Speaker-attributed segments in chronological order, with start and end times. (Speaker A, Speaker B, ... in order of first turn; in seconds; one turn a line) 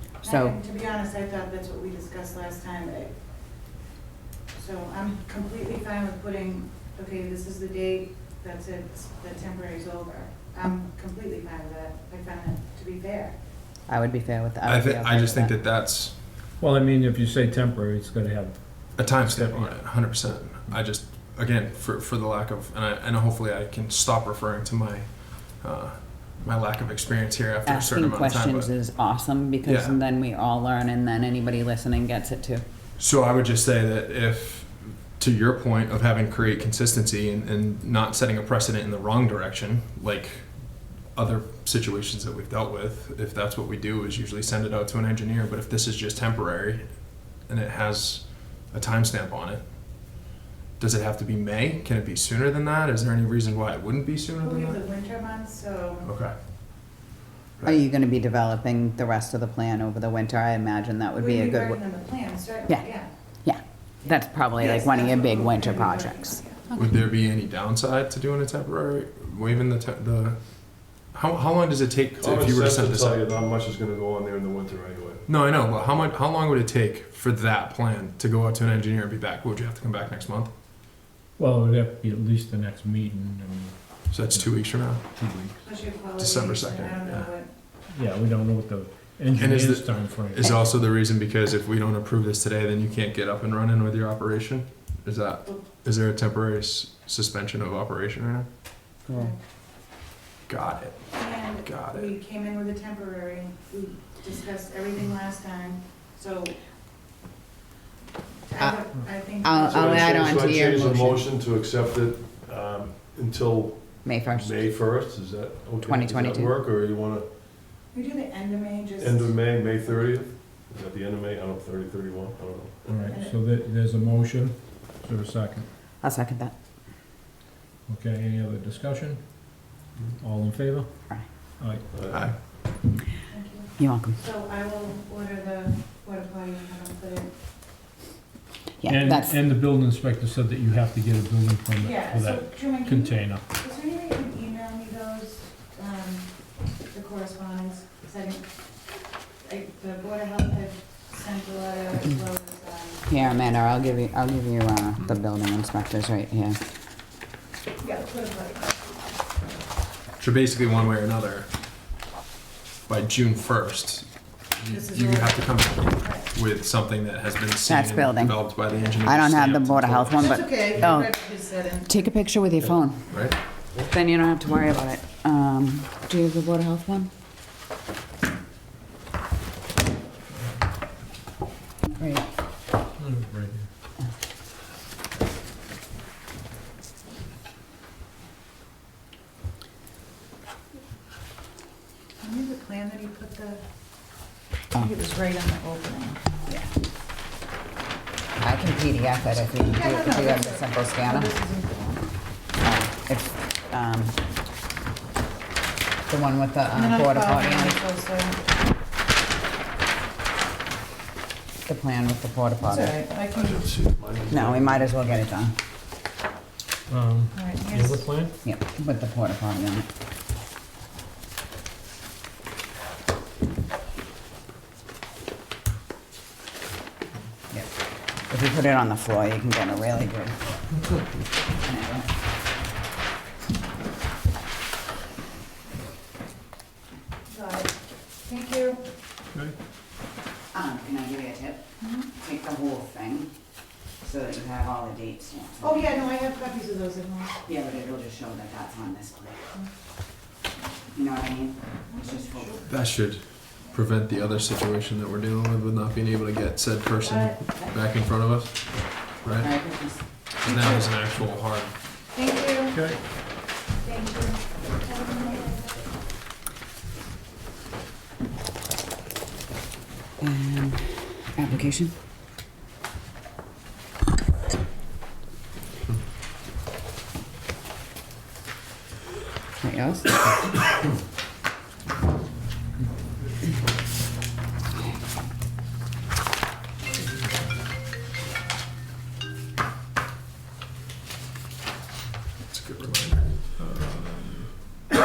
Speaker A: 0.2-0.6
Speaker B: 0.2-3.1
Speaker B: 4.5-13.4
Speaker A: 13.9-15.6
Speaker C: 14.7-16.1
Speaker D: 16.6-19.8
Speaker C: 19.0-28.7
Speaker A: 27.7-32.6
Speaker C: 29.6-30.0
Speaker C: 33.0-50.1
Speaker C: 50.8-54.8
Speaker B: 54.4-56.1
Speaker C: 56.0-56.3
Speaker A: 57.6-62.0
Speaker B: 61.2-63.1
Speaker A: 63.5-66.6
Speaker B: 64.6-66.7
Speaker C: 66.7-73.2
Speaker E: 72.2-75.2
Speaker C: 75.3-80.5
Speaker D: 81.4-84.5
Speaker C: 84.1-85.1
Speaker D: 85.1-85.6
Speaker B: 85.6-87.5
Speaker C: 86.0-87.3
Speaker D: 87.9-90.7
Speaker C: 89.4-98.5
Speaker A: 99.1-99.3
Speaker B: 99.1-99.4
Speaker C: 100.5-102.2
Speaker B: 101.2-106.6
Speaker B: 108.5-110.4
Speaker A: 108.6-111.2
Speaker E: 109.6-117.3
Speaker A: 114.0-114.6
Speaker A: 115.8-116.5
Speaker B: 117.9-119.5
Speaker E: 119.0-123.0
Speaker D: 122.9-125.7
Speaker B: 123.1-123.3
Speaker A: 126.0-126.5
Speaker D: 127.9-131.9
Speaker E: 131.9-132.3
Speaker C: 132.1-132.4
Speaker B: 133.3-137.3
Speaker A: 133.8-134.2
Speaker A: 138.8-139.3
Speaker D: 138.9-143.4
Speaker B: 141.9-153.1
Speaker A: 153.1-156.6
Speaker B: 157.8-159.0
Speaker C: 160.2-161.5
Speaker C: 162.9-170.9
Speaker B: 164.7-166.2
Speaker A: 167.7-168.4
Speaker A: 169.0-171.2
Speaker B: 170.1-172.0
Speaker A: 171.9-177.1
Speaker C: 173.1-173.4
Speaker A: 182.0-182.3
Speaker D: 183.0-183.7
Speaker B: 192.2-193.6
Speaker B: 194.8-196.3
Speaker A: 198.4-201.4
Speaker B: 199.6-202.1
Speaker A: 202.6-204.2
Speaker A: 206.1-207.8
Speaker B: 206.8-208.4
Speaker A: 211.7-212.9
Speaker B: 212.7-213.6
Speaker E: 213.3-215.2
Speaker A: 214.3-215.6
Speaker D: 216.9-218.3
Speaker B: 217.3-218.0
Speaker A: 218.4-219.9
Speaker A: 228.3-230.4
Speaker A: 231.6-232.2
Speaker B: 237.3-238.8
Speaker A: 240.5-241.6
Speaker A: 242.2-243.3
Speaker A: 244.0-246.0
Speaker B: 245.6-247.4
Speaker A: 247.5-249.4
Speaker A: 250.9-252.7
Speaker C: 252.7-259.5
Speaker A: 259.4-260.0
Speaker C: 260.4-261.8
Speaker B: 260.5-260.7
Speaker B: 262.1-262.8
Speaker D: 262.7-263.0
Speaker B: 263.8-265.7
Speaker A: 270.2-271.9
Speaker A: 279.6-280.8
Speaker C: 292.5-293.5
Speaker D: 293.6-294.5